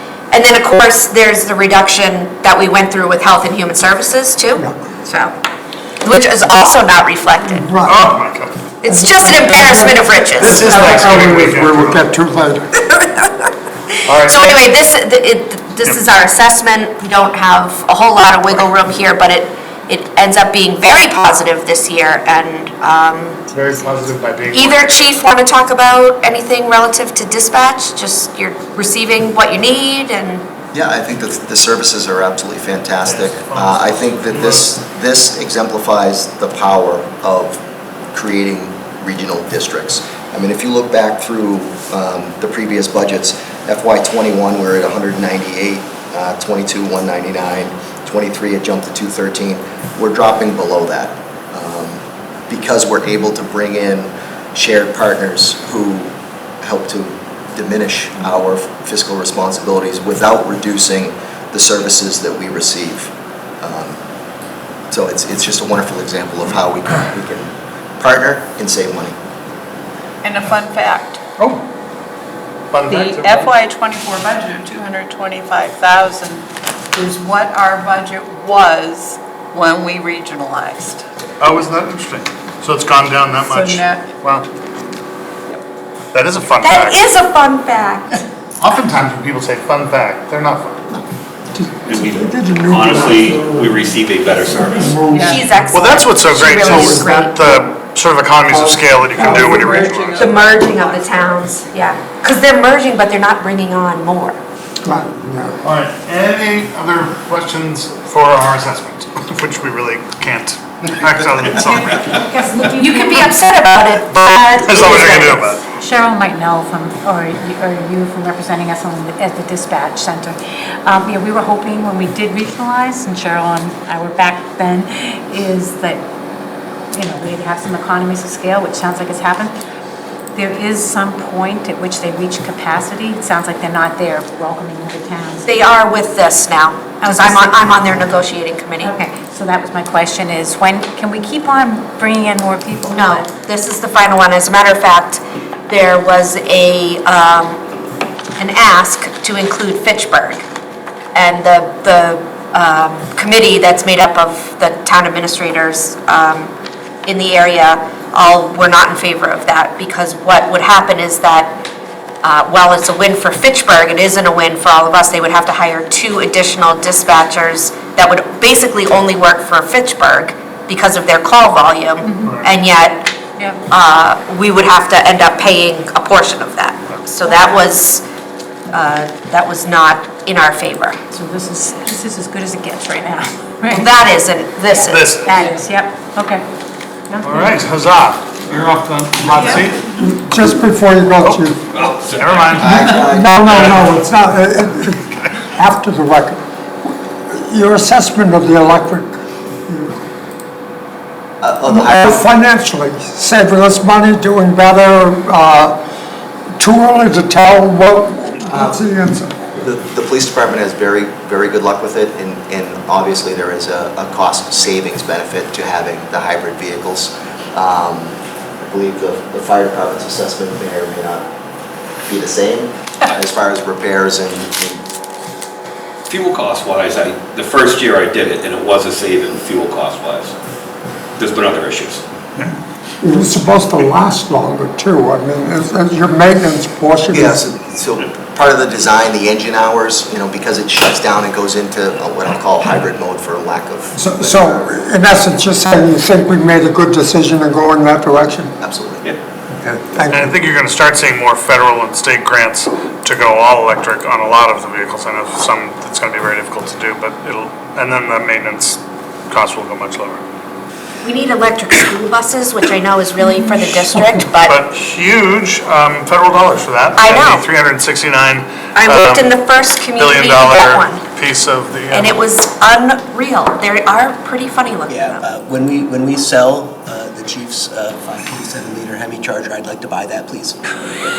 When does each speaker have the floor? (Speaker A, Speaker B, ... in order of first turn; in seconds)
Speaker A: 0.3-5.3, 6.0-7.6, 8.8-11.2, 13.0-13.3, 14.2-23.5, 24.5-30.4, 86.6-88.2, 95.2-97.4, 100.2-104.4, 112.7-115.5, 135.4-138.9, 142.9-147.6, 148.4-150.4, 151.1-156.5, 157.1-161.6, 162.2-173.1, 173.7-178.0, 178.7-181.0, 183.7-185.1, 261.0-264.6, 267.0-267.4, 268.8-271.0, 271.9-275.2
Speaker B: 7.5-8.0, 8.9-12.7, 91.5-93.7, 94.8-95.7, 96.7-97.2, 104.8-105.6, 189.3-191.6, 192.9-195.0, 195.5-200.0, 201.7-205.8, 206.6-209.5, 233.0-237.4, 243.9-248.6, 249.5-250.3
Speaker C: 7.8-8.6, 10.4-12.1, 14.0-14.4, 23.5-25.0, 33.0-34.7, 71.4-71.6, 72.7-73.5, 81.4-84.5, 86.1-87.1, 88.6-90.9, 95.7-100.5, 105.6-112.0, 114.1-115.6, 172.2-172.5, 184.8-185.3, 187.2-189.9, 191.2-194.1, 250.1-260.2, 264.4-269.3, 269.9-272.2
Speaker D: 30.7-37.6, 38.1-64.0, 64.9-69.2, 192.6-193.7, 201.4-202.2, 209.6-221.3, 222.1-224.8, 237.1-244.7, 248.6-249.1
Speaker E: 70.2-71.2, 72.9-81.0, 83.4-84.1, 95.1-95.4, 98.5-101.4, 189.3-189.8
Speaker F: 91.8-95.1, 191.7-192.2, 226.1-230.3, 231.2-232.0
Speaker G: 111.6-113.4, 115.6-126.0, 126.9-129.5, 130.3-135.5, 137.0-138.1, 138.8-143.3, 172.0-172.4, 181.1-183.9, 184.7-186.4, 187.1-187.6, 263.2-263.7
Speaker H: 274.9-280.6